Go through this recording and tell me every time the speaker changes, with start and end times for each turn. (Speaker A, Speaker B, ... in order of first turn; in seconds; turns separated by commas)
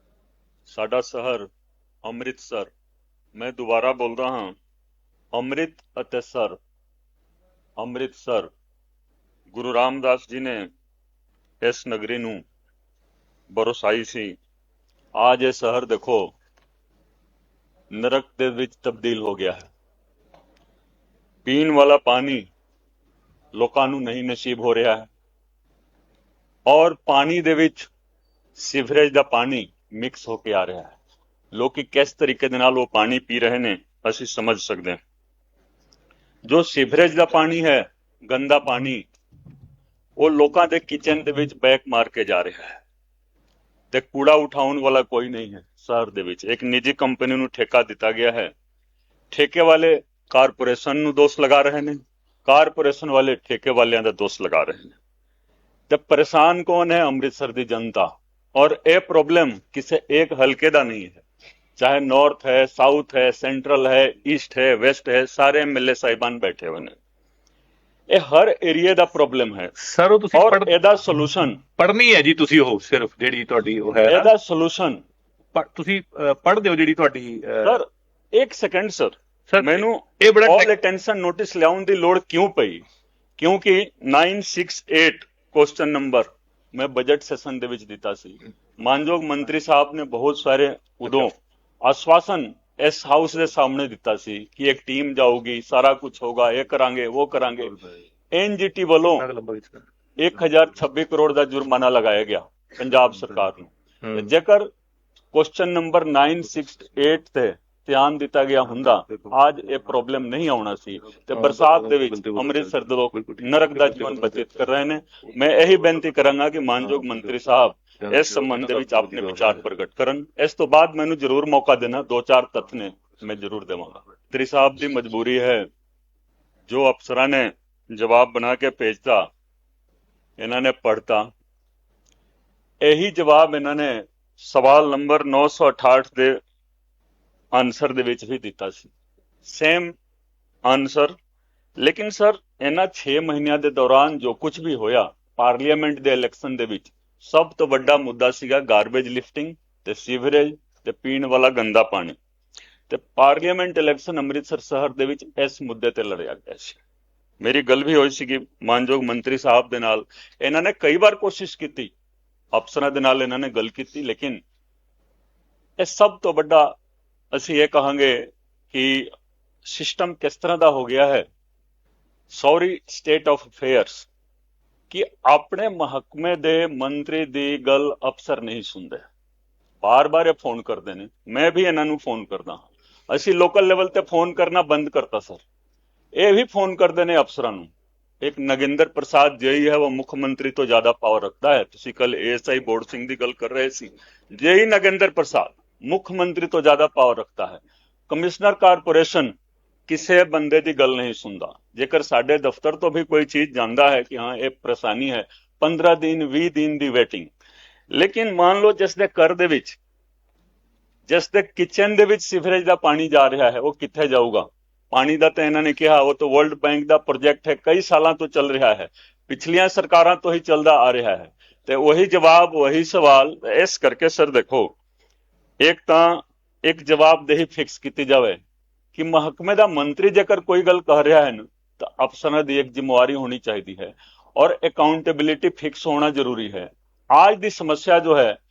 Speaker A: 0.7-1.5, Speaker A: 2.0-2.7, Speaker A: 3.3-4.6, Speaker A: 5.3-6.6, Speaker A: 7.8-8.5, Speaker A: 9.5-10.7, Speaker A: 11.6-12.4, Speaker A: 13.5-14.3, Speaker A: 15.2-16.3, Speaker A: 17.9-19.7, Speaker A: 21.4-22.5, Speaker A: 23.5-25.1, Speaker A: 26.7-27.9, Speaker A: 28.6-30.9, Speaker A: 31.5-35.0, Speaker A: 36.5-39.0, Speaker A: 40.2-42.8, Speaker A: 43.9-48.5, Speaker A: 49.3-55.0, Speaker A: 55.9-61.2, Speaker A: 61.8-66.9, Speaker A: 68.1-69.7, Speaker B: 69.8-70.7, Speaker A: 70.3-71.6, Speaker B: 71.8-74.3, Speaker A: 74.1-75.0, Speaker B: 75.5-77.8, Speaker A: 77.6-82.8, Speaker B: 79.5-80.7, Speaker A: 83.4-91.3, Speaker A: 91.8-97.8, Speaker A: 98.3-99.2, Speaker B: 99.2-99.8, Speaker A: 100.2-104.7, Speaker B: 104.0-104.3, Speaker A: 105.3-125.7, Speaker B: 111.3-114.4, Speaker B: 118.0-119.5, Speaker A: 126.7-129.3, Speaker A: 130.4-131.3, Speaker A: 132.8-136.4, Speaker A: 137.5-138.9, Speaker A: 139.4-139.9, Speaker A: 140.6-141.1, Speaker A: 141.8-152.2, Speaker A: 152.9-156.8, Speaker A: 157.4-161.9, Speaker A: 162.5-164.4, Speaker A: 165.8-166.8, Speaker A: 167.3-169.1, Speaker A: 169.7-171.2, Speaker A: 172.3-174.1, Speaker A: 174.9-179.0, Speaker A: 179.8-185.4, Speaker A: 186.2-199.3, Speaker A: 199.9-207.3, Speaker A: 207.9-209.8, Speaker A: 211.1-224.8, Speaker A: 225.6-228.4, Speaker A: 228.9-238.4